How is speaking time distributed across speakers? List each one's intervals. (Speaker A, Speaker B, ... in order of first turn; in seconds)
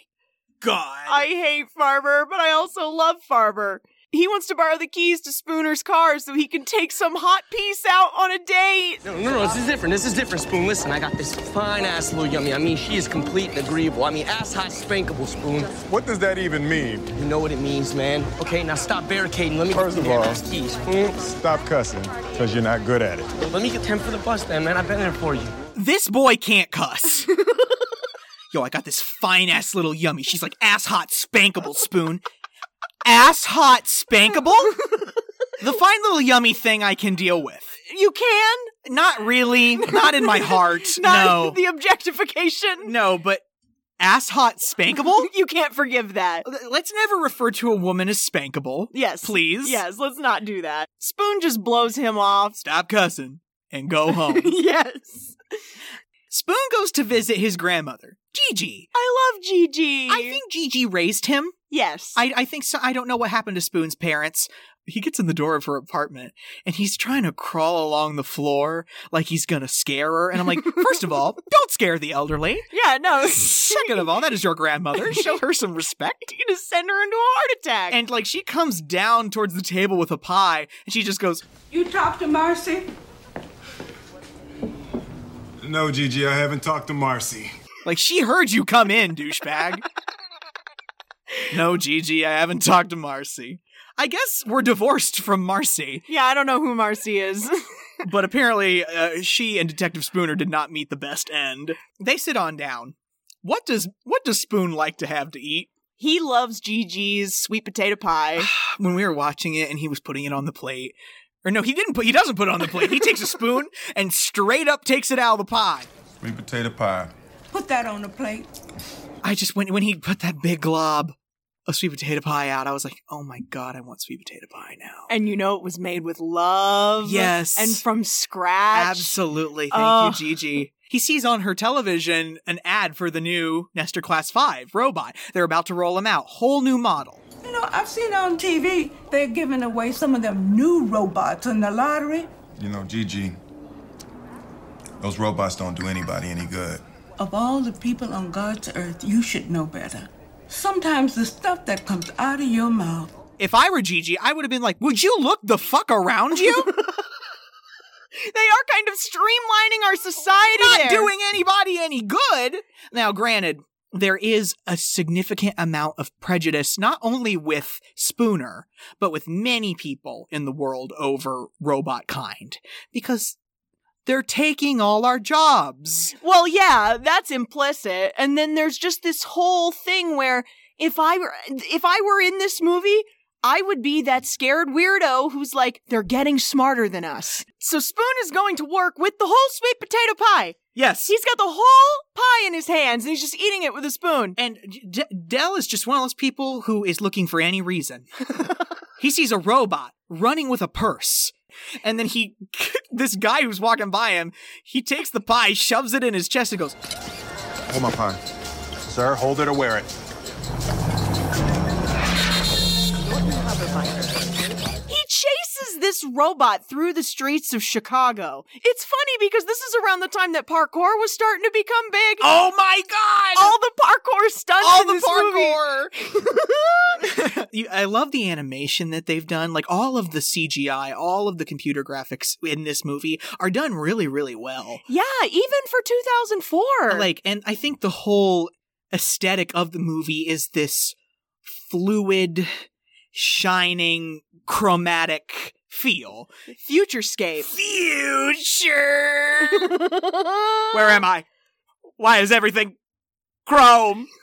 Speaker A: 0.6-1.3, 25.7-27.3, 28.5-32.2, 33.0-34.8, 35.6-37.8, 38.8-41.6, 42.8-43.4, 44.0-45.3, 46.4-49.8, 52.6-54.5, 56.3-58.9, 60.1-61.5, 62.1-76.3, 77.9-81.4, 87.8-89.8, 91.5-96.0, 98.0-105.7, 108.4-115.9, 119.2-121.1, 121.7-125.1, 127.0-127.8, 128.7-137.2, 153.4-156.8, 160.5-173.3, 174.1-176.1, 190.7-191.1, 194.4-198.5, 199.0-206.8, 222.2-223.5, 224.6-225.9, 227.0-234.8, 236.9-240.9, 241.5-242.5, 243.1-246.3, 247.4-249.8, 250.7-251.2, 252.0-252.7, 253.4-254.1
Speaker B: 1.1-9.0, 37.9-38.7, 39.9-42.9, 45.2-46.4, 48.9-52.6, 54.1-55.3, 58.9-60.4, 61.7-62.2, 72.7-74.1, 75.1-75.4, 76.3-78.0, 96.1-97.6, 106.0-108.5, 125.1-129.2, 129.7-130.2, 158.2-161.1, 176.2-194.4, 213.3-214.0, 214.9-222.3, 223.3-225.6, 226.1-227.1, 234.9-237.1, 246.5-247.5, 249.6-250.6
Speaker C: 9.0-15.8, 17.1-21.2, 23.4-25.5
Speaker D: 15.9-17.0, 19.8-20.4, 21.3-23.2, 85.6-87.5, 116.2-117.1, 142.6-143.4, 145.0-146.8, 207.7-208.2, 208.9-209.9
Speaker E: 81.7-82.9, 117.5-118.5, 137.4-142.3, 147.2-153.1